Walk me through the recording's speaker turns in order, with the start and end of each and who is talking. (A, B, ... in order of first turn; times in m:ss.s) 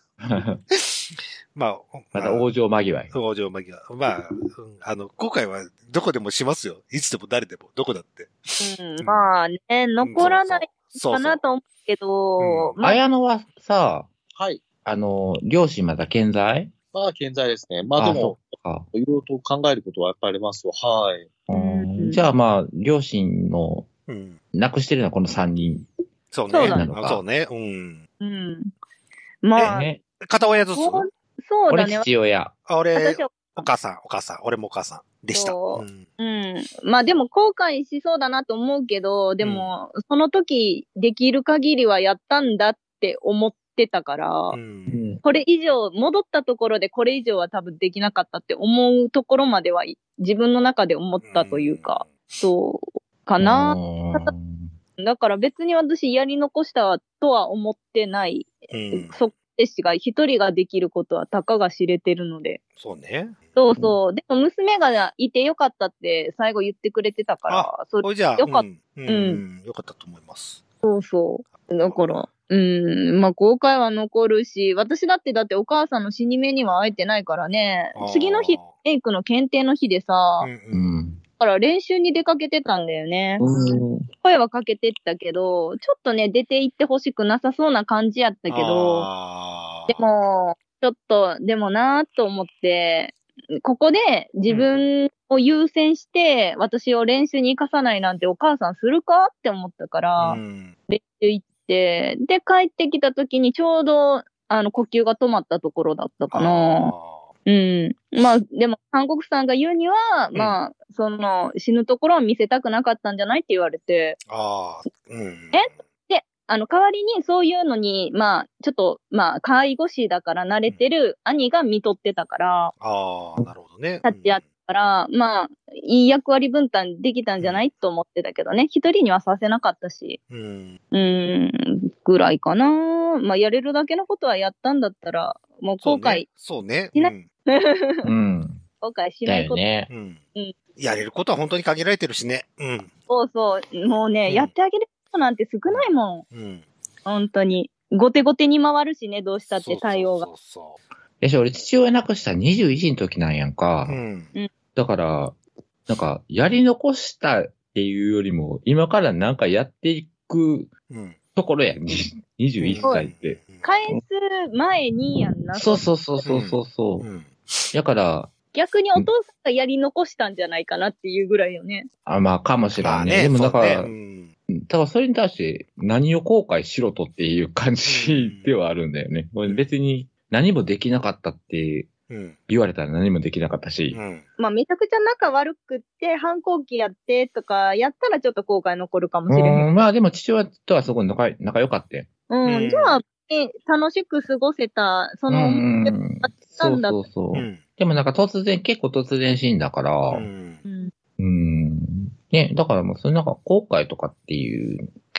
0:00.2-0:00.6 A
0:00.7-0:02.5 B
0:02.2-0:03.1 A
0:03.1-0:09.3 B
0:08.6-0:13.0 C
0:10.0-0:11.4 B
0:12.4-0:12.8 B
0:12.8-0:14.1 A
0:14.3-0:14.6 D
0:14.8-0:16.7 A
0:16.9-0:21.3 D
0:18.0-0:18.9 A
0:21.5-0:23.9 A
0:21.5-0:22.2 C
0:24.1-0:24.4 B
0:24.5-0:25.9 A
0:26.3-0:28.0 B
0:26.5-0:26.8 C
0:26.6-0:27.2 A
0:28.2-0:28.7 C
0:29.4-0:29.9 C
0:29.6-0:31.1 B
0:29.6-0:30.0 A
0:30.5-0:32.1 C
0:31.7-0:32.5 A
0:32.7-0:36.0 B
0:33.0-0:33.7 C
0:35.3-0:44.6 C
0:39.4-0:39.7 B
0:44.5-0:45.0 B
0:44.9-0:45.2 D
0:45.2-0:54.3 C
0:51.2-0:52.1 B
0:53.4-0:54.7 A
0:55.0-1:02.6 C
0:58.7-0:59.3 B
1:02.8-1:03.4 B
1:03.6-1:09.4 C
1:07.5-1:10.6 B
1:10.8-1:20.5 C
1:11.7-1:12.3 B
1:18.0-1:18.7 B
1:20.4-1:20.9 B
1:20.7-1:21.2 A
1:21.4-1:23.4 C
1:24.2-1:29.1 C
1:28.5-1:30.0 B
1:29.9-1:46.9 C
1:40.2-1:40.8 B
1:46.3-1:47.3 B
1:47.5-1:54.2 C
1:54.3-1:55.8 B
1:55.5-2:02.7 C
2:02.8-2:04.4 B
2:04.0-2:10.2 C
2:10.3-2:10.8 B
2:10.9-2:16.3 C
2:15.8-2:17.3 B
2:17.0-2:18.1 C
2:18.0-2:18.6 A
2:18.8-2:19.6 C
2:19.3-2:19.9 A
2:19.9-2:20.2 B
2:20.8-2:22.9 B
2:23.1-2:26.2 C
2:25.7-2:26.6 B
2:27.1-2:30.3 C
2:29.6-2:30.8 B
2:31.2-2:34.0 A
2:33.9-2:34.3 B
2:34.8-2:35.4 A
2:35.9-2:40.7 A
2:40.9-2:41.2 B
2:41.4-2:43.4 A
2:42.6-2:43.6 B
2:42.8-2:43.1 C
2:43.6-2:45.9 C
2:45.5-2:47.1 A
2:46.2-2:47.7 B
2:47.7-2:48.3 A
2:48.5-2:51.9 C
2:52.1-2:53.9 A
2:52.8-2:54.3 B
2:54.5-3:01.9 A
2:57.8-2:58.5 B
3:02.1-3:02.4 B
3:02.5-3:04.0 A
3:03.9-3:04.2 B
3:04.4-3:09.7 C
3:09.3-3:12.1 A
3:12.3-3:17.0 C
3:12.5-3:13.0 B
3:15.3-3:20.3 A
3:17.3-3:17.6 B
3:20.1-3:20.6 B
3:20.6-3:20.9 C
3:21.2-3:24.9 A